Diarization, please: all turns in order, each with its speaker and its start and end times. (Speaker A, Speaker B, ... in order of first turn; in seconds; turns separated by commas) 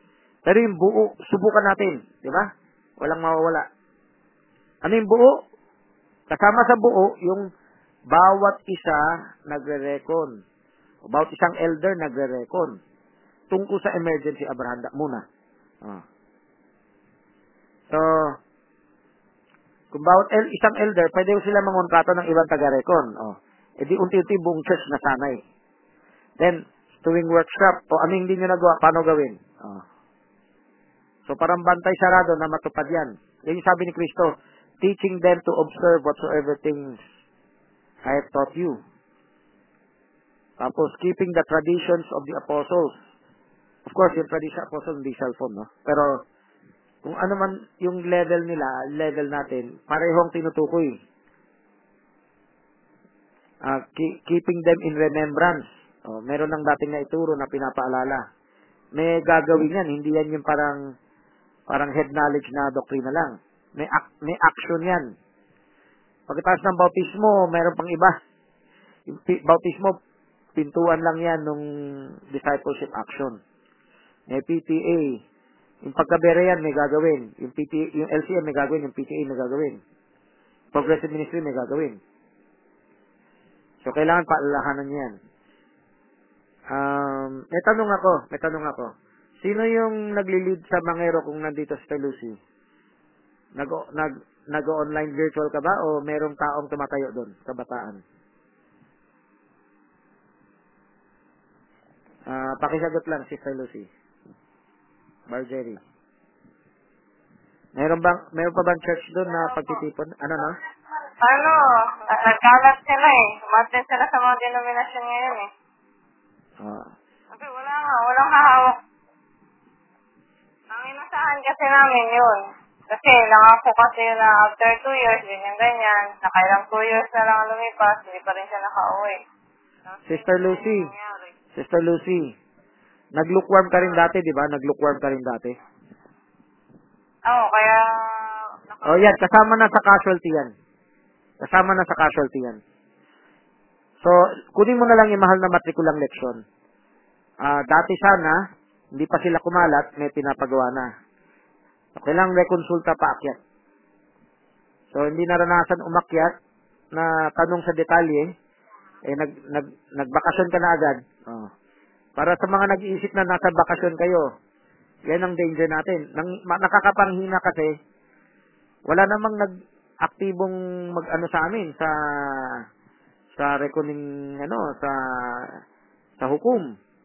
Speaker A: 0.5-2.5, Speaker A: 3.0-3.6, Speaker A: 4.8-5.4, Speaker A: 6.3-7.5, Speaker A: 8.1-10.4, Speaker A: 11.1-12.8, Speaker A: 13.5-15.2, Speaker A: 17.9-18.4, Speaker A: 19.9-25.4, Speaker A: 26.4-29.8, Speaker A: 31.3-37.0, Speaker A: 38.1-38.8, Speaker A: 40.6-42.9, Speaker A: 43.9-46.2, Speaker A: 47.0-51.0, Speaker A: 53.6-58.2, Speaker A: 59.0-60.8, Speaker A: 61.7-65.1, Speaker A: 66.3-68.2, Speaker A: 69.1-70.0, Speaker A: 70.6-71.6, Speaker A: 72.3-73.4, Speaker A: 74.3-75.2, Speaker A: 75.8-79.8, Speaker A: 80.7-82.0, Speaker A: 83.8-85.2, Speaker A: 86.7-88.9, Speaker A: 89.4-92.4, Speaker A: 93.6-98.0, Speaker A: 102.3-103.9, Speaker A: 105.3-105.8, Speaker A: 107.8-110.6, Speaker B: 109.5-109.8, Speaker B: 111.2-115.5, Speaker A: 116.6-116.9, Speaker B: 117.3-118.8, Speaker B: 120.7-129.2, Speaker B: 129.9-131.3, Speaker A: 130.1-130.9, Speaker A: 131.6-132.3, Speaker A: 133.2-135.6, Speaker B: 137.3-139.2, Speaker A: 138.8-140.5, Speaker A: 141.4-142.6, Speaker A: 144.0-146.4, Speaker A: 147.4-148.4, Speaker A: 148.9-150.9, Speaker A: 152.0-153.4, Speaker A: 154.9-156.3, Speaker A: 156.9-158.3, Speaker A: 159.1-161.5, Speaker A: 162.2-164.3, Speaker A: 165.1-167.7, Speaker A: 168.9-169.5, Speaker A: 170.0-172.5, Speaker A: 173.4-175.5, Speaker A: 176.2-176.7